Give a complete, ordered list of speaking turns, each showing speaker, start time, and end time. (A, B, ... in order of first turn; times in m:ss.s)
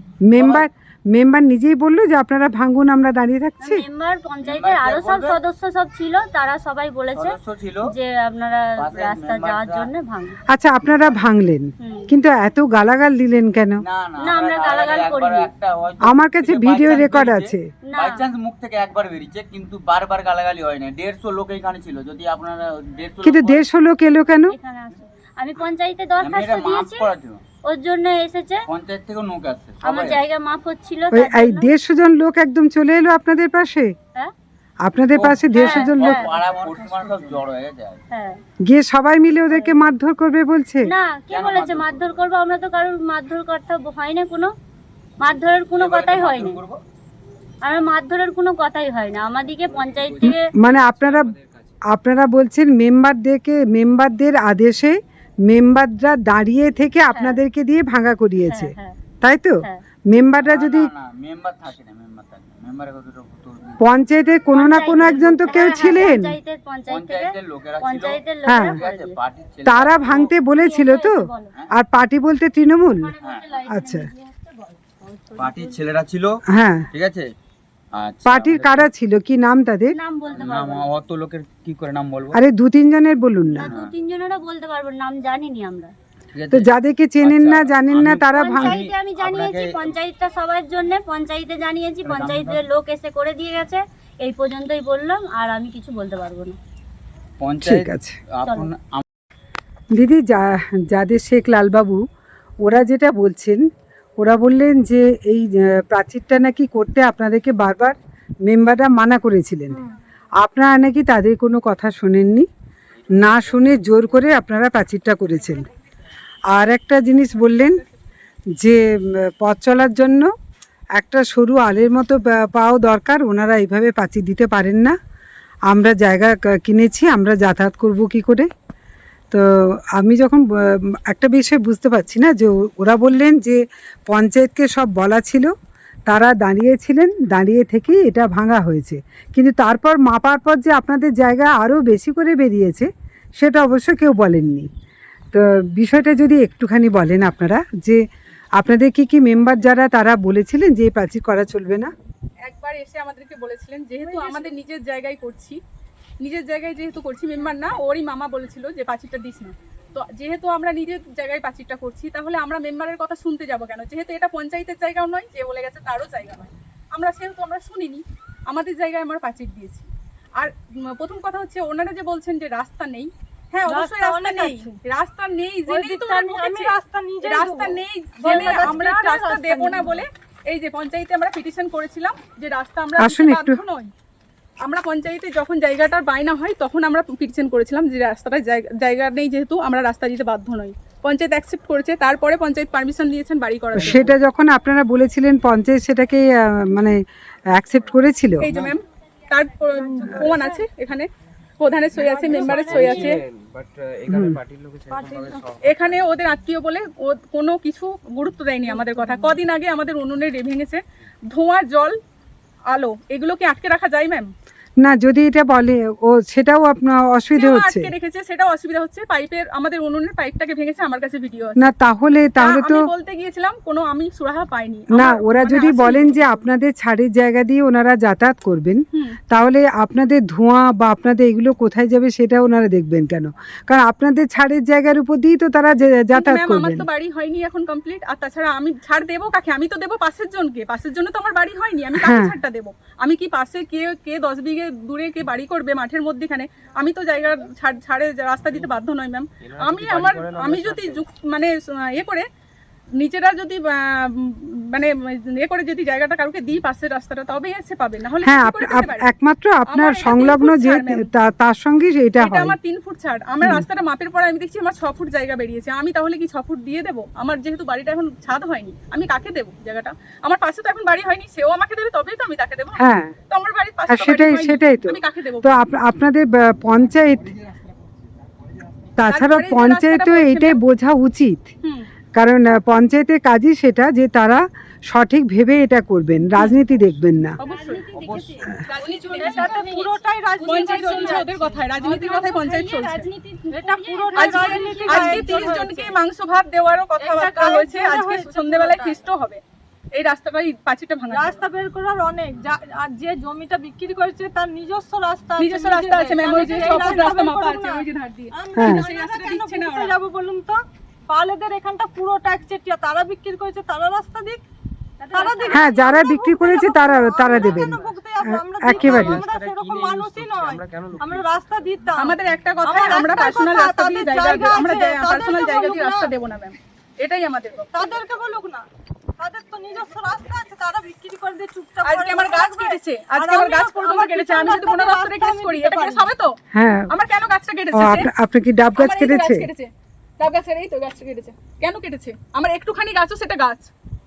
0:00.3-0:03.8 A
0:00.4-0:00.7 B
0:03.6-0:07.4 C
0:04.4-0:05.4 B
0:07.2-0:07.9 B
0:07.9-0:10.4 C
0:08.8-0:09.9 B
0:10.5-0:13.8 A
0:11.8-0:12.1 C
0:13.8-0:23.6 B
0:14.2-0:15.5 C
0:16.0-0:17.6 A
0:17.9-0:18.2 C
0:23.2-0:24.5 A
0:24.5-0:27.1 C
0:26.2-0:27.4 B
0:27.6-0:28.7 C
0:28.7-0:30.2 B
0:29.8-0:31.7 C
0:31.1-0:33.9 A
0:34.8-0:36.3 A
0:35.2-0:38.0 B
0:35.5-0:36.3 C
0:36.4-0:37.4 D
0:38.1-0:38.4 C
0:38.7-0:40.9 A
0:39.5-0:39.8 C
0:40.8-0:44.5 C
0:41.3-0:42.2 B
0:45.2-0:46.6 C
0:45.7-0:46.8 B
0:47.6-0:50.5 C
0:49.4-0:51.8 D
0:50.2-0:51.3 A
0:51.9-1:00.9 A
0:57.1-0:57.4 C
0:58.5-0:59.0 C
1:00.2-1:03.8 B
1:03.8-1:06.3 A
1:04.5-1:09.2 C
1:05.2-1:06.0 B
1:06.9-1:10.3 B
1:08.5-1:08.8 A
1:09.6-1:13.1 A
1:10.6-1:11.5 C
1:13.0-1:15.8 C
1:13.7-1:14.1 A
1:15.4-1:16.4 B
1:16.5-1:16.9 A
1:16.9-1:17.3 B
1:17.9-1:18.9 B
1:18.3-1:19.9 A
1:19.9-1:20.9 C
1:20.3-1:22.4 B
1:22.3-1:23.7 A
1:23.5-1:25.9 C
1:26.4-1:29.9 B
1:26.5-1:28.8 A
1:28.3-1:36.6 C
1:32.1-1:32.6 B
1:37.4-1:39.0 B
1:37.6-1:38.2 A
1:38.4-1:38.7 C
1:39.9-1:42.0 A
1:42.6-1:43.6 A
1:44.2-1:49.8 A
1:50.4-1:52.5 A
1:53.2-1:55.7 A
1:56.5-1:57.8 A
1:58.6-2:00.3 A
2:01.0-2:05.0 A
2:05.7-2:08.5 A
2:09.3-2:15.5 A
2:16.1-2:24.7 A
2:25.3-2:28.0 A
2:28.6-2:31.9 A
2:32.4-2:35.6 E
2:34.1-2:34.5 F
2:36.2-2:49.9 E
2:50.4-3:03.9 E
2:53.7-2:54.8 F
2:55.7-3:00.0 F
3:03.0-3:03.6 A
3:04.6-3:14.1 E
3:13.7-3:17.0 A
3:17.5-3:18.6 A
3:18.4-3:21.1 E
3:19.8-3:20.6 F
3:21.6-3:23.2 E
3:22.0-3:23.2 F
3:22.4-3:26.0 D
3:24.1-3:24.4 A
3:24.9-3:25.5 F
3:25.6-3:32.0 E
3:28.7-3:29.4 F
3:32.7-3:34.3 E
3:34.8-3:37.9 A
3:37.3-3:41.7 E
3:41.6-3:42.9 A
3:42.4-3:46.2 E
3:44.9-3:56.9 A
3:56.1-4:12.3 E
4:02.0-4:02.4 A
4:09.4-4:11.0 D
4:13.0-4:19.1 E
4:18.2-4:22.6 A
4:19.7-4:21.1 E
4:22.2-4:32.8 E
4:32.8-4:33.1 A
4:33.3-4:35.6 E
4:33.9-4:37.3 A
4:39.0-4:41.5 A
4:39.1-4:40.6 E
4:42.2-4:47.4 A
4:47.4-4:59.4 E
4:47.5-4:56.0 F
4:57.0-4:59.0 F
5:00.0-5:01.4 E
5:01.1-5:14.4 F
5:05.4-5:10.0 E
5:15.0-5:26.1 F
5:15.1-5:15.6 E
5:15.5-5:17.8 A
5:17.3-5:17.9 D
5:18.4-5:19.3 A
5:18.7-5:21.4 D
5:22.0-5:27.9 E
5:27.7-5:28.6 F
5:29.2-5:36.1 F
5:31.8-5:36.4 E
5:36.5-5:36.9 A
5:36.9-5:38.1 E
5:37.7-5:39.5 A
5:38.8-5:43.7 E